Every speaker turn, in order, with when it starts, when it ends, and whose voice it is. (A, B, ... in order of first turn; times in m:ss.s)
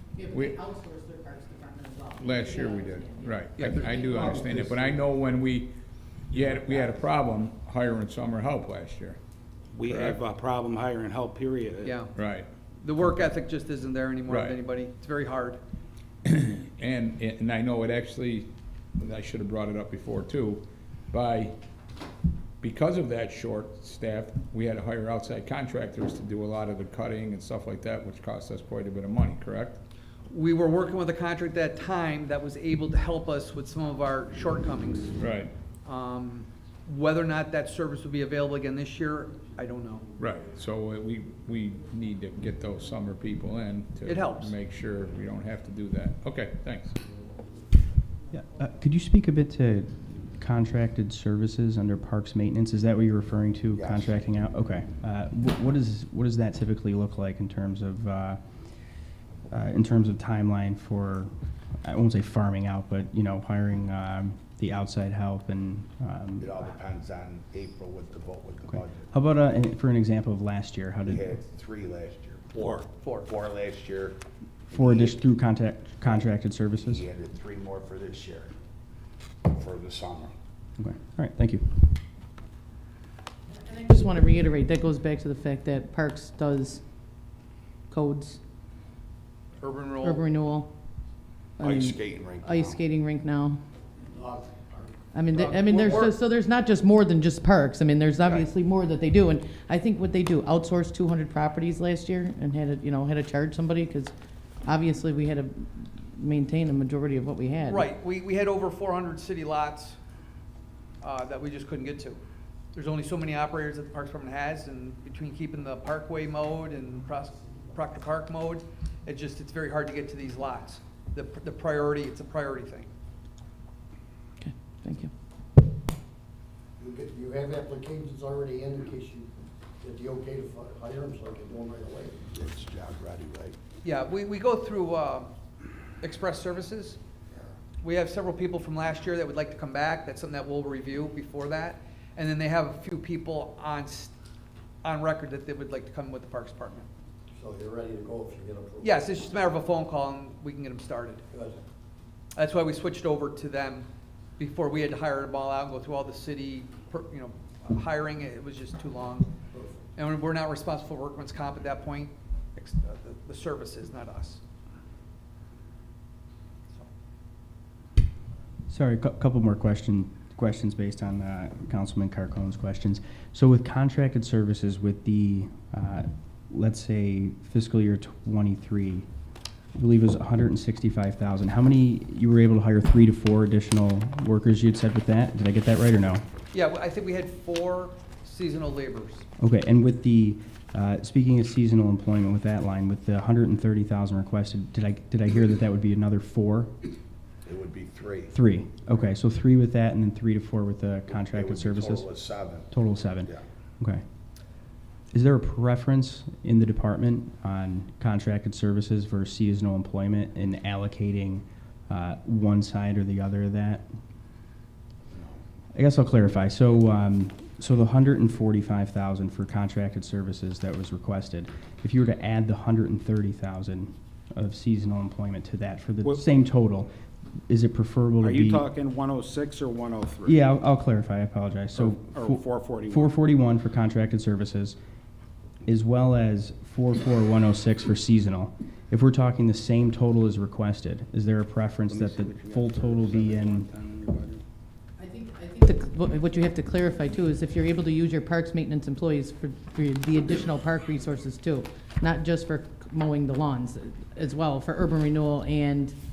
0:00.2-0:04.7 A
0:00.3-0:00.6 B
0:02.2-0:05.7 B
0:03.6-0:04.6 C
0:06.3-0:09.2 B
0:09.7-0:12.0 D
0:09.8-0:10.2 B
0:11.8-0:12.1 C
0:12.1-0:12.5 B
0:12.8-0:15.6 C
0:14.3-0:14.5 B
0:16.2-0:21.5 B
0:22.6-0:29.8 B
0:30.3-0:35.2 C
0:35.2-0:35.5 B
0:35.8-0:40.0 C
0:40.2-0:47.0 B
0:44.0-0:44.5 C
0:48.3-0:58.4 E
0:53.7-0:54.1 F
0:59.5-1:01.3 E
1:01.8-1:06.5 E
1:06.4-1:09.1 F
1:09.1-1:11.3 E
1:11.0-1:14.2 F
1:13.0-1:13.3 C
1:14.7-1:15.2 F
1:14.7-1:17.0 E
1:16.8-1:18.5 F
1:19.4-1:20.3 F
1:20.8-1:22.0 E
1:23.5-1:26.8 A
1:27.9-1:28.4 A
1:29.6-1:30.2 C
1:30.0-1:30.7 A
1:31.6-1:33.6 A
1:31.6-1:32.8 F
1:34.1-1:35.0 G
1:35.1-1:44.1 A
1:35.3-1:36.1 C
1:38.2-1:38.5 F
1:44.6-1:47.9 A
1:47.7-1:50.0 C
1:51.0-1:52.2 C
1:52.7-2:02.9 C
2:04.4-2:05.1 A
2:06.8-2:09.3 G
2:09.8-2:12.2 G
2:12.3-2:13.6 F
2:13.8-2:15.3 C
2:16.0-2:17.0 C
2:17.8-2:24.1 C
2:24.8-2:26.8 C
2:27.3-2:29.0 G
2:28.8-2:31.2 C
2:31.3-2:31.6 G
2:32.3-2:33.9 C
2:34.4-2:39.3 C
2:39.5-2:39.8 G
2:40.0-2:44.4 C
2:48.7-2:59.1 E
2:59.7-3:06.2 E
3:06.5-3:09.2 C
3:09.4-3:16.7 E
3:17.4-3:18.4 F
3:18.3-3:22.1 E
3:21.2-3:22.7 F
3:22.7-3:24.0 E
3:25.1-3:33.8 E
3:35.7-3:46.9 E
3:47.5-3:48.6 E
3:48.2-3:50.4 D
3:50.2-3:54.8 E
3:51.7-3:53.2 D
3:55.6-4:03.7 E
4:01.9-4:04.4 D
4:05.0-4:16.0 A